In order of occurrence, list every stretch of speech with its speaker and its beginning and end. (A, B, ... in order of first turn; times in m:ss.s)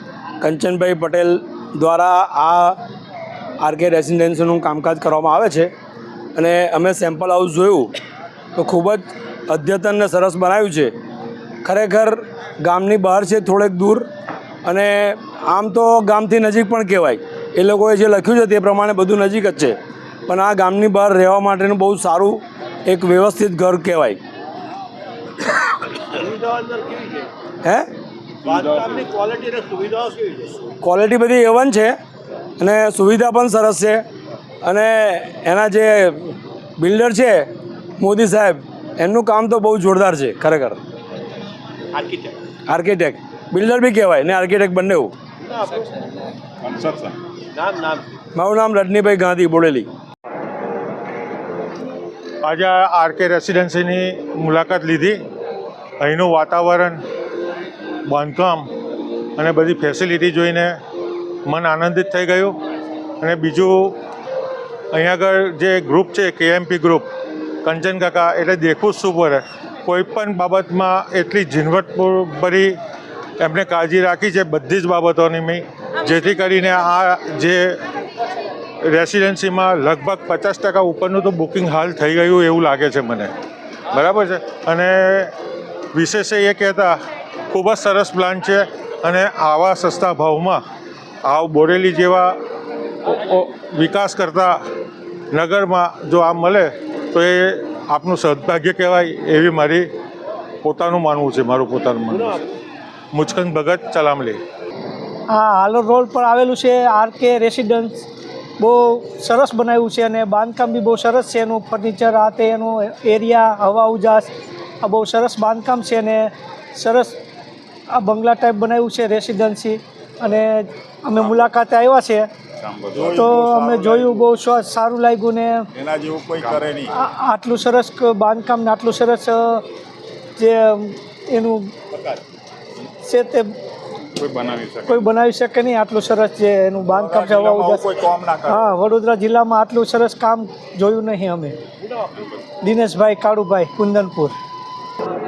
0:00.4-0:02.8 A
0:03.6-0:05.7 A
0:06.3-0:07.9 A
0:08.6-0:10.9 A
0:11.6-0:14.1 A
0:14.6-0:24.2 A
0:26.2-0:27.2 B
0:27.6-0:27.9 A
0:28.4-0:30.4 B
0:30.8-0:32.0 A
0:32.6-0:34.0 A
0:34.6-0:40.8 A
0:42.0-0:42.2 B
0:42.7-0:45.1 A
0:47.6-0:48.0 B
0:48.3-0:49.9 A
0:52.4-0:55.2 C
0:56.0-0:57.0 C
0:58.1-0:58.7 C
0:59.4-1:00.8 C
1:01.4-1:02.6 C
1:03.2-1:04.0 C
1:04.9-1:07.1 C
1:07.6-1:12.7 C
1:13.4-1:17.8 C
1:18.8-1:23.3 C
1:23.9-1:25.3 C
1:25.9-1:27.0 C
1:27.5-1:30.6 C
1:31.2-1:32.4 C
1:33.0-1:34.6 C
1:35.3-1:39.9 C
1:40.6-1:42.4 C
1:43.1-1:44.4 C
1:45.3-1:48.0 D
1:48.6-1:54.3 D
1:54.8-1:57.2 D
1:57.9-2:02.3 D
2:02.9-2:04.3 E
2:03.1-2:05.7 D
2:05.7-2:06.9 E
2:06.9-2:09.6 D
2:10.4-2:11.7 D
2:13.0-2:13.5 D
2:14.8-2:17.9 D
2:16.9-2:18.6 E
2:18.4-2:21.6 D
2:22.6-2:24.3 D